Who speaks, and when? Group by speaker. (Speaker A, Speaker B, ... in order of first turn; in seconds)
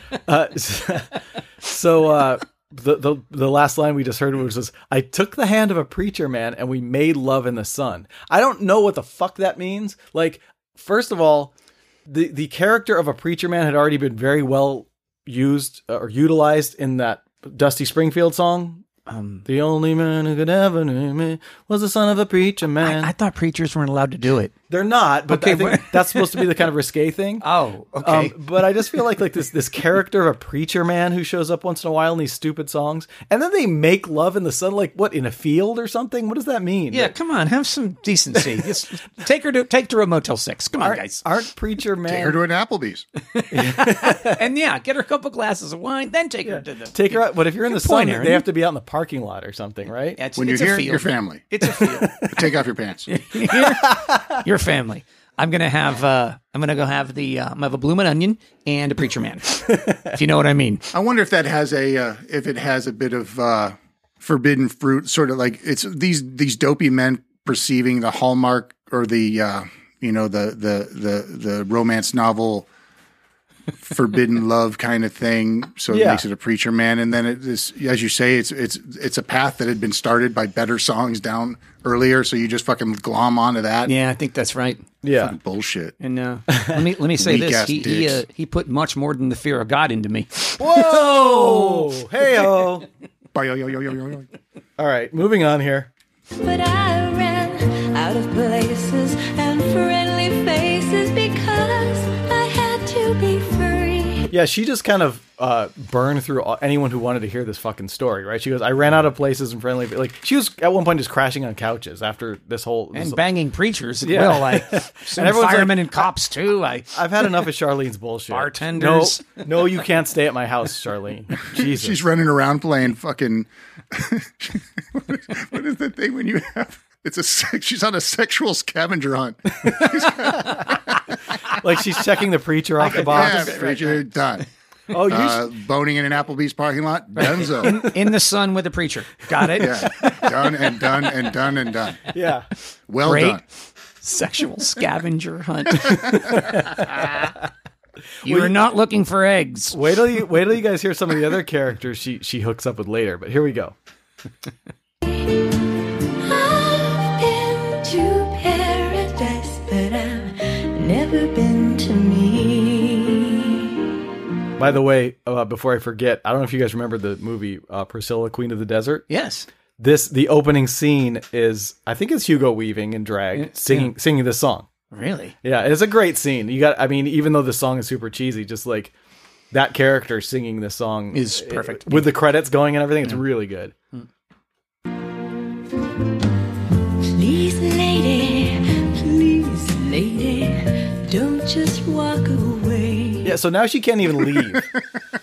Speaker A: 0.2-11.5, 12.1-18.8, 19.4-23.1, 24.7-27.4, 28.0-37.1, 40.8-42.4, 43.5-44.4, 46.4-50.2, 51.6-52.3, 53.5-54.4, 75.9-76.2, 85.0-85.3, 86.5-86.8, 90.6-92.8, 94.8-95.9, 104.3-113.2, 114.0-116.1, 116.9-122.0, 129.6-130.6, 131.5-133.5, 134.9-135.5, 142.1-142.5, 145.9-146.8, 148.2-148.5, 149.7-153.7, 164.6-169.0, 169.8-174.7, 175.4-178.9, 179.5-183.7, 193.2-194.7
Speaker B: 19.1-19.4, 22.8-24.5, 25.3-26.5, 27.4-28.8, 36.9-41.2, 43.3-48.4, 50.2-52.4, 53.1-60.9, 83.8-84.9, 86.0-92.7, 112.9-117.5, 118.3-119.7, 132.8-134.4, 137.2-140.2, 143.0-143.4, 144.0-147.3, 148.2-149.8, 169.1-169.5, 173.3-173.9, 174.9-175.3, 181.1-182.1
Speaker C: 42.1-43.0, 50.4-51.4, 52.3-53.1, 60.9-72.7, 73.8-83.9, 85.1-85.9, 87.1-88.2, 93.3-94.3, 121.5-130.8, 133.0-134.4, 135.1-137.9, 139.5-142.0, 142.9-143.4
Speaker D: 96.3-104.3, 155.1-155.5, 156.2-163.8, 187.1-193.3